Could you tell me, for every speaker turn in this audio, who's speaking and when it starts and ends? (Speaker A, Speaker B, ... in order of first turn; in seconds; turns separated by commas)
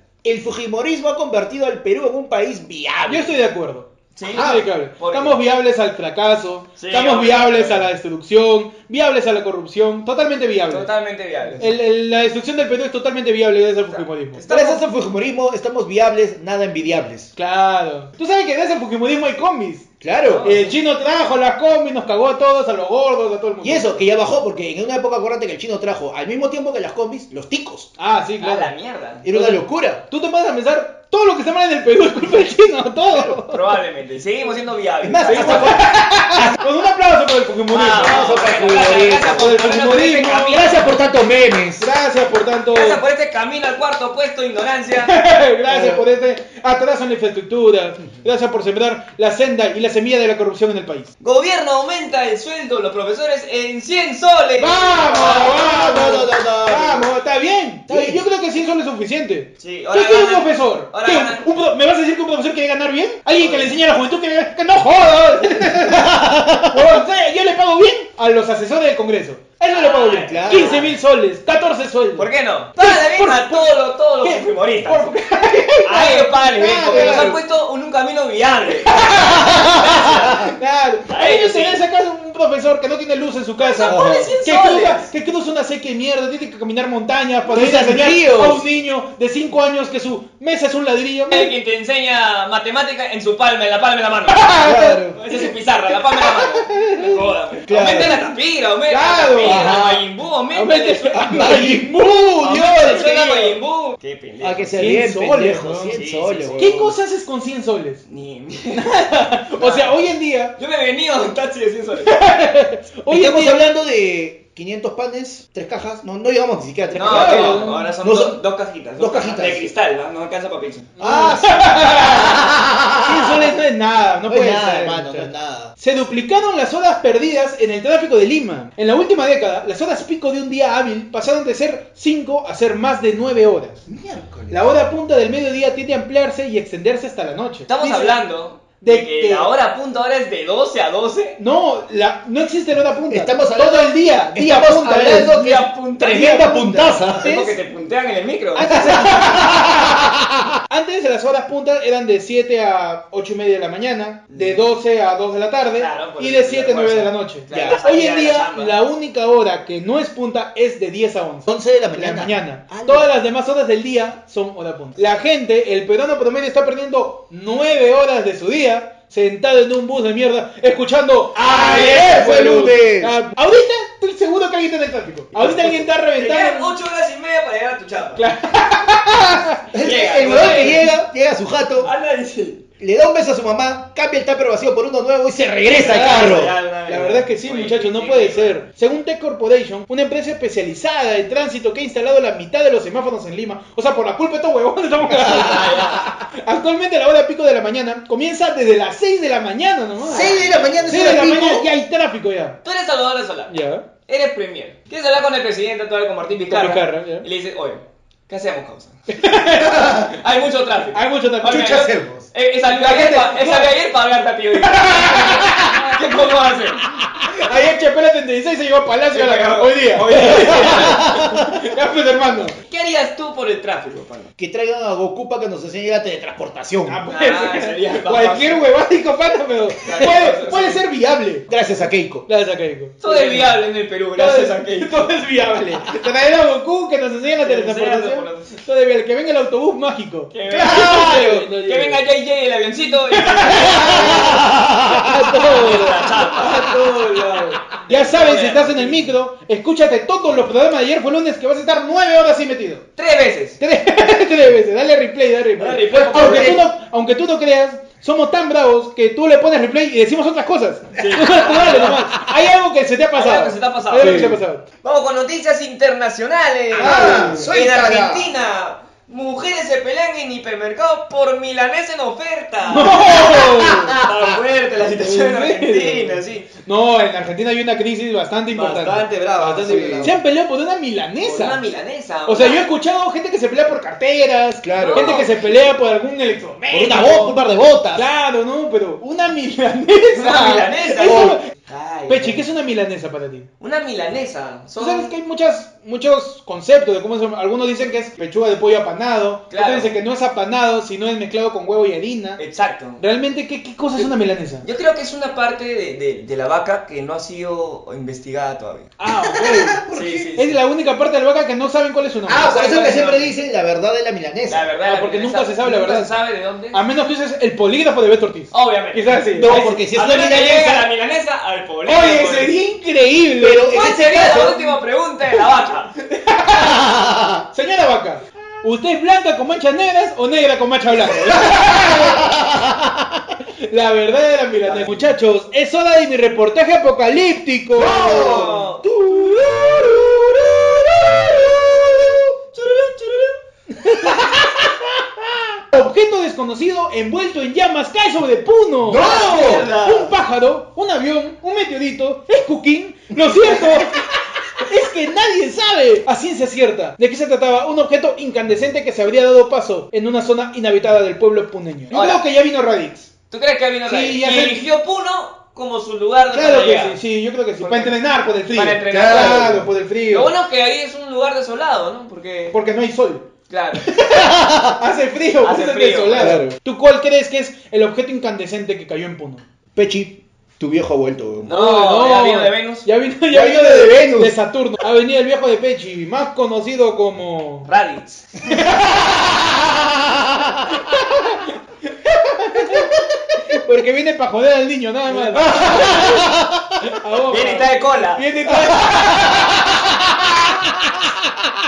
Speaker A: 0.2-3.4, Speaker B: 3.1-10.9, Speaker C: 4.2-5.4, Speaker C: 6.8-7.9, Speaker C: 10.7-11.7, Speaker B: 11.6-14.4, Speaker C: 13.9-14.8, Speaker A: 14.5-17.3, Speaker B: 17.4-19.9, Speaker A: 20.0-20.5, Speaker C: 20.2-20.8, Speaker B: 20.4-24.0, Speaker A: 23.6-27.9, Speaker B: 28.0-28.7, Speaker C: 28.4-29.3, Speaker A: 29.2-30.0, Speaker B: 29.3-33.7, Speaker C: 33.5-35.8, Speaker A: 35.0-36.6, Speaker B: 35.3-40.8, Speaker C: 37.7-40.8, Speaker A: 38.0-39.5, Speaker A: 40.5-41.9, Speaker B: 41.8-43.0, Speaker C: 42.7-45.1, Speaker B: 45.0-51.1, Speaker A: 45.7-46.0, Speaker C: 51.2-55.2, Speaker B: 54.6-77.4, Speaker A: 54.9-57.1, Speaker A: 57.9-58.2, Speaker C: 59.6-61.4, Speaker C: 63.4-63.8, Speaker A: 65.7-67.0, Speaker C: 69.7-70.9, Speaker A: 70.3-70.9, Speaker C: 72.2-75.2, Speaker C: 75.8-80.5, Speaker A: 76.6-77.4, Speaker B: 78.8-91.5, Speaker A: 79.1-80.5, Speaker C: 81.1-81.8, Speaker C: 83.6-85.1, Speaker A: 83.8-84.3, Speaker A: 87.5-88.6, Speaker C: 91.3-94.5, Speaker B: 94.3-95.1, Speaker A: 94.6-95.2, Speaker C: 95.1-101.5, Speaker B: 96.6-97.2, Speaker A: 97.7-98.2, Speaker B: 98.9-99.8, Speaker A: 99.4-100.1, Speaker B: 100.5-103.6, Speaker A: 101.2-102.0, Speaker C: 102.4-104.7, Speaker A: 104.4-107.0, Speaker B: 104.7-106.0, Speaker C: 105.9-106.8, Speaker B: 106.5-108.0, Speaker C: 108.1-108.8, Speaker B: 108.7-110.5, Speaker C: 109.6-110.0, Speaker C: 110.6-112.2, Speaker B: 112.0-113.7, Speaker A: 113.1-118.4, Speaker C: 116.9-120.9, Speaker B: 117.0-117.9, Speaker A: 119.0-119.7, Speaker B: 121.0-122.5, Speaker A: 121.0-123.5, Speaker B: 123.0-133.8, Speaker A: 124.2-125.7, Speaker A: 133.9-134.8, Speaker B: 134.5-138.2, Speaker C: 137.7-141.4, Speaker B: 138.8-139.5, Speaker B: 141.4-145.3, Speaker A: 143.1-147.5, Speaker C: 145.0-149.2, Speaker B: 146.2-147.5, Speaker B: 148.6-150.1, Speaker A: 148.8-150.4, Speaker B: 150.7-176.7, Speaker C: 154.3-154.6, Speaker C: 155.8-158.8, Speaker A: 157.5-157.8, Speaker A: 161.5-163.2, Speaker A: 171.3-173.2, Speaker A: 175.4-175.8, Speaker C: 176.2-178.2, Speaker B: 178.2-179.7, Speaker A: 179.7-181.9, Speaker C: 179.8-180.9, Speaker B: 180.4-180.9, Speaker C: 181.8-182.6, Speaker A: 182.8-186.6, Speaker C: 185.7-188.6, Speaker B: 185.9-200.3, Speaker C: 195.2-196.1, Speaker C: 200.0-201.0, Speaker A: 200.1-201.7, Speaker B: 200.9-202.6, Speaker C: 202.6-203.6, Speaker B: 203.5-203.8, Speaker C: 204.1-216.8, Speaker B: 206.5-207.3, Speaker B: 209.1-210.2, Speaker B: 210.9-211.9, Speaker A: 211.6-212.3, Speaker B: 212.7-213.7, Speaker B: 214.6-216.0, Speaker B: 217.3-222.6, Speaker C: 219.1-221.1, Speaker A: 220.8-221.5, Speaker C: 222.7-224.3, Speaker A: 224.4-227.0, Speaker B: 226.9-231.5, Speaker C: 227.1-228.6, Speaker C: 229.8-230.8, Speaker A: 231.5-232.3, Speaker B: 232.3-233.6, Speaker C: 233.0-235.0, Speaker B: 234.2-242.0, Speaker C: 237.4-238.5, Speaker C: 240.3-244.5, Speaker A: 240.5-241.5, Speaker B: 243.1-252.9, Speaker A: 243.8-245.5, Speaker C: 245.3-249.1, Speaker C: 253.0-253.6, Speaker B: 253.6-264.6, Speaker C: 255.6-256.7, Speaker A: 256.1-256.6, Speaker C: 261.0-262.2, Speaker C: 263.2-276.5, Speaker A: 264.0-264.4, Speaker A: 266.7-268.4, Speaker B: 266.8-267.5, Speaker B: 272.7-274.0, Speaker B: 275.0-281.6, Speaker C: 278.5-280.2, Speaker A: 279.6-280.1, Speaker C: 281.2-282.7, Speaker B: 282.3-287.4, Speaker A: 284.6-285.3, Speaker C: 284.7-285.3, Speaker A: 286.7-288.1, Speaker B: 287.9-291.5, Speaker C: 290.1-292.5, Speaker A: 291.0-291.4, Speaker B: 292.1-293.5, Speaker C: 293.6-295.2, Speaker B: 294.8-302.4, Speaker C: 299.5-299.9, Speaker C: 302.4-303.0, Speaker B: 303.0-304.6, Speaker C: 304.6-308.9, Speaker B: 309.0-309.8, Speaker A: 309.2-310.4, Speaker C: 309.9-310.6, Speaker B: 310.4-312.5, Speaker A: 312.3-314.6, Speaker C: 312.4-313.3, Speaker C: 314.5-316.8, Speaker B: 314.9-316.1, Speaker B: 316.7-319.8, Speaker C: 318.5-322.6, Speaker A: 319.4-320.9, Speaker B: 321.9-323.9, Speaker A: 323.4-324.7, Speaker C: 323.7-326.0, Speaker B: 326.2-326.8, Speaker A: 326.5-327.4, Speaker B: 327.5-332.4, Speaker A: 331.9-333.2, Speaker B: 333.6-338.5, Speaker A: 334.7-335.0, Speaker A: 337.8-342.3, Speaker C: 337.9-341.9, Speaker C: 342.5-343.4, Speaker B: 343.8-344.7, Speaker B: 345.7-354.1, Speaker A: 348.9-349.7, Speaker C: 348.9-350.1, Speaker A: 353.1-354.1, Speaker B: 354.6-363.1, Speaker C: 361.9-362.2, Speaker C: 363.3-367.0, Speaker B: 363.9-364.6, Speaker B: 366.3-370.3, Speaker C: 367.6-369.6, Speaker A: 368.9-369.7, Speaker C: 370.1-372.6, Speaker B: 372.5-373.3, Speaker C: 373.5-373.9, Speaker B: 373.8-379.4, Speaker A: 374.1-374.7, Speaker C: 375.4-376.4, Speaker A: 376.1-376.6, Speaker A: 379.8-381.5, Speaker C: 381.4-382.9, Speaker B: 381.5-387.7, Speaker A: 383.3-384.3, Speaker C: 387.7-388.4, Speaker B: 388.7-389.0, Speaker A: 389.0-390.6, Speaker B: 390.9-391.5, Speaker B: 392.0-392.9, Speaker B: 393.5-399.8, Speaker A: 395.1-396.8, Speaker C: 395.3-396.2, Speaker C: 397.3-398.3, Speaker A: 398.6-401.5